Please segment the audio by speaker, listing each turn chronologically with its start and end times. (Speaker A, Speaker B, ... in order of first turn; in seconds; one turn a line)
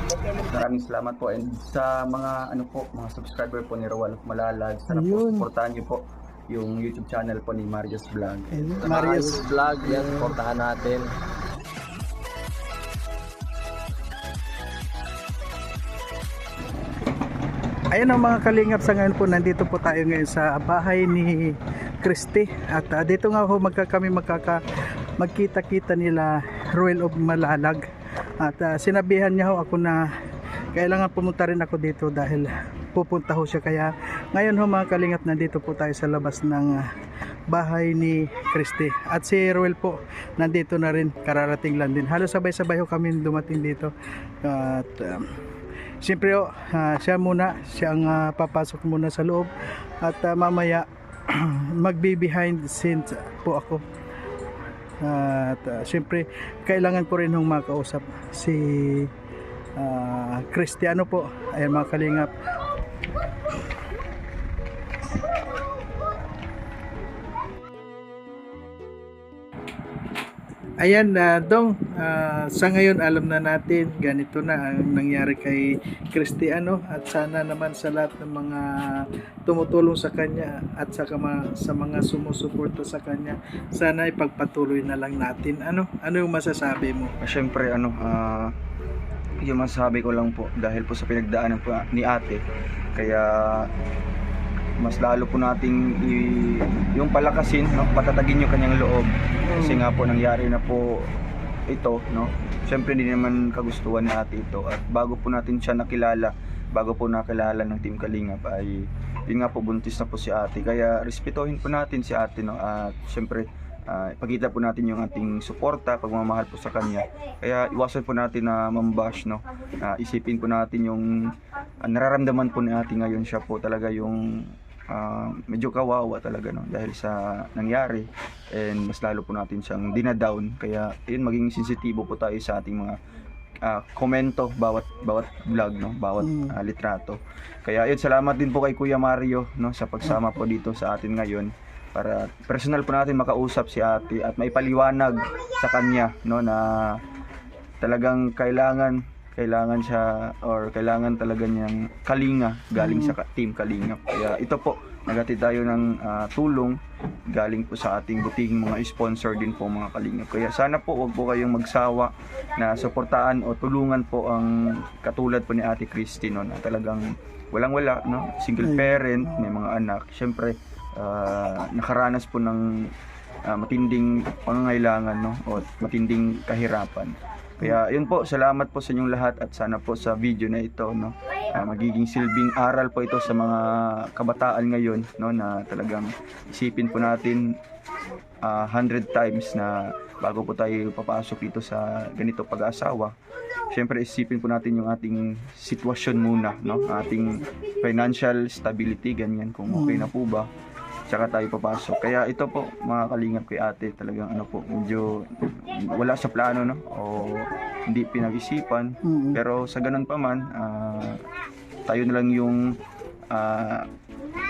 Speaker A: 0.4-8.7
Speaker B: 4.9-5.5
Speaker B: 8.5-10.4
Speaker C: 8.8-11.1
Speaker B: 17.9-24.6
Speaker B: 25.2-27.8
Speaker B: 28.4-30.1
Speaker B: 30.7-36.9
Speaker B: 37.5-43.9
Speaker B: 44.4-45.3
Speaker B: 46.0-53.8
Speaker B: 55.0-59.1
Speaker B: 59.8-62.3
Speaker B: 70.8-87.1
Speaker A: 87.2-88.5
Speaker A: 89.4-92.4
Speaker A: 92.9-93.7
Speaker A: 94.8-101.1
Speaker B: 99.4-99.8
Speaker A: 101.7-108.8
Speaker A: 109.3-124.3
Speaker A: 124.9-132.9
Speaker A: 133.6-147.0
Speaker B: 136.2-136.5
Speaker A: 147.8-156.8
Speaker B: 152.8-153.2
Speaker A: 157.3-172.7
Speaker B: 168.6-169.5
Speaker A: 173.5-187.4
Speaker A: 188.4-193.1
Speaker A: 193.7-200.5
Speaker B: 199.7-200.1
Speaker A: 201.1-211.2
Speaker B: 209.0-209.4
Speaker A: 211.9-212.6
Speaker A: 213.3-213.8